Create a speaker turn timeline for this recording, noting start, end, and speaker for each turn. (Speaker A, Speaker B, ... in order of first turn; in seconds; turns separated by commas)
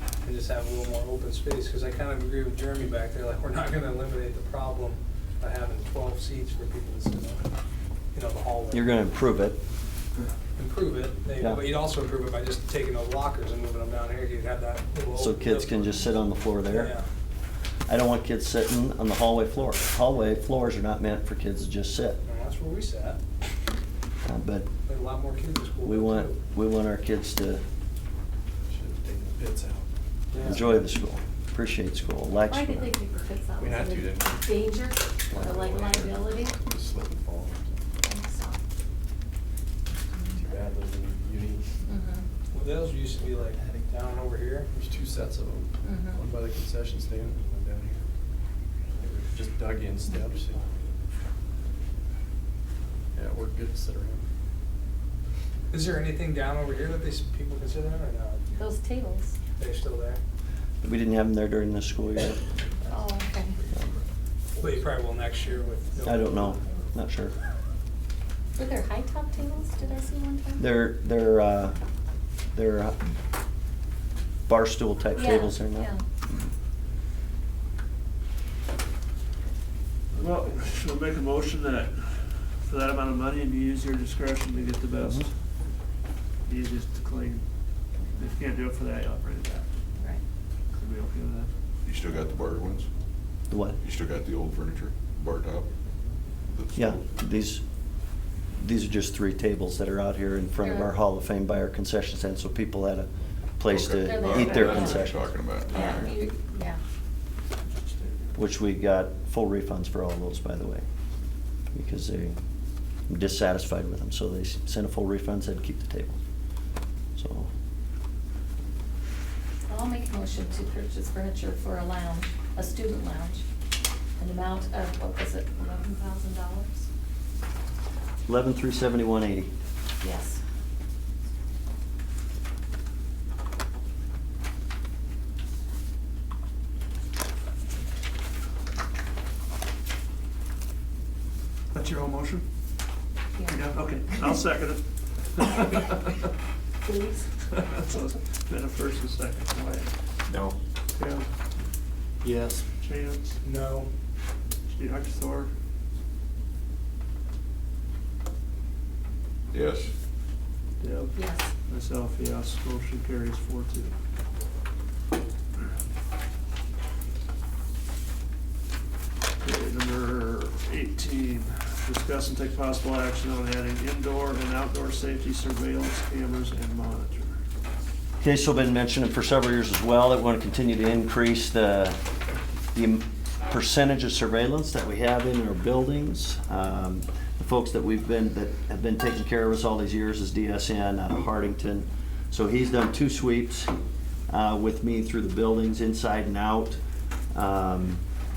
Speaker A: 0.2-7.5, Speaker A: 8.1-8.9, Speaker B: 8.7-9.6, Speaker A: 10.6-15.9, Speaker B: 15.1-16.9, Speaker A: 16.7-17.1, Speaker B: 17.9-22.2, Speaker A: 22.2-23.2, Speaker B: 24.2-24.7, Speaker A: 24.9-26.4, Speaker B: 25.8-27.6, Speaker C: 28.7-29.9, Speaker A: 30.3-30.8, Speaker B: 30.4-33.0, Speaker D: 32.5-36.5, Speaker C: 33.6-37.8, Speaker D: 38.1-38.6, Speaker C: 40.3-41.8, Speaker D: 41.9-42.3, Speaker A: 42.5-44.7, Speaker C: 44.7-48.1, Speaker D: 45.8-46.2, Speaker C: 48.9-50.7, Speaker C: 53.1-54.3, Speaker A: 55.7-58.4, Speaker D: 58.5-59.4, Speaker A: 59.6-60.2, Speaker B: 60.8-62.4, Speaker D: 62.9-63.5, Speaker A: 64.6-66.6, Speaker B: 66.0-67.3, Speaker D: 68.6-70.6, Speaker B: 70.6-71.8, Speaker B: 72.5-73.0, Speaker B: 74.5-76.5, Speaker D: 75.2-76.0, Speaker E: 80.1-85.3, Speaker B: 85.0-85.3, Speaker E: 86.5-87.4, Speaker E: 88.2-89.7, Speaker E: 90.7-91.5, Speaker F: 91.9-92.9, Speaker B: 93.5-93.8, Speaker F: 93.8-95.7, Speaker B: 96.8-97.6, Speaker B: 98.5-105.3, Speaker D: 100.6-100.9, Speaker D: 103.7-105.1, Speaker F: 105.0-106.1, Speaker D: 105.7-106.8, Speaker B: 108.3-110.8, Speaker B: 111.7-112.4, Speaker B: 113.1-116.2, Speaker B: 117.2-117.5, Speaker D: 119.7-123.4, Speaker D: 124.2-126.9, Speaker B: 128.3-129.5, Speaker D: 130.0-130.4, Speaker E: 141.7-142.4, Speaker E: 143.5-144.8, Speaker E: 145.3-146.2, Speaker D: 146.8-147.3, Speaker E: 147.8-149.9, Speaker E: 151.0-151.3, Speaker E: 152.8-153.4, Speaker A: 153.4-153.9, Speaker E: 154.7-155.5, Speaker F: 159.5-159.9, Speaker E: 160.8-163.9, Speaker D: 161.2-161.5, Speaker E: 169.4-177.4, Speaker B: 178.2-182.0, Speaker B: 182.7-193.7, Speaker B: 194.3-196.8, Speaker B: 197.3-198.0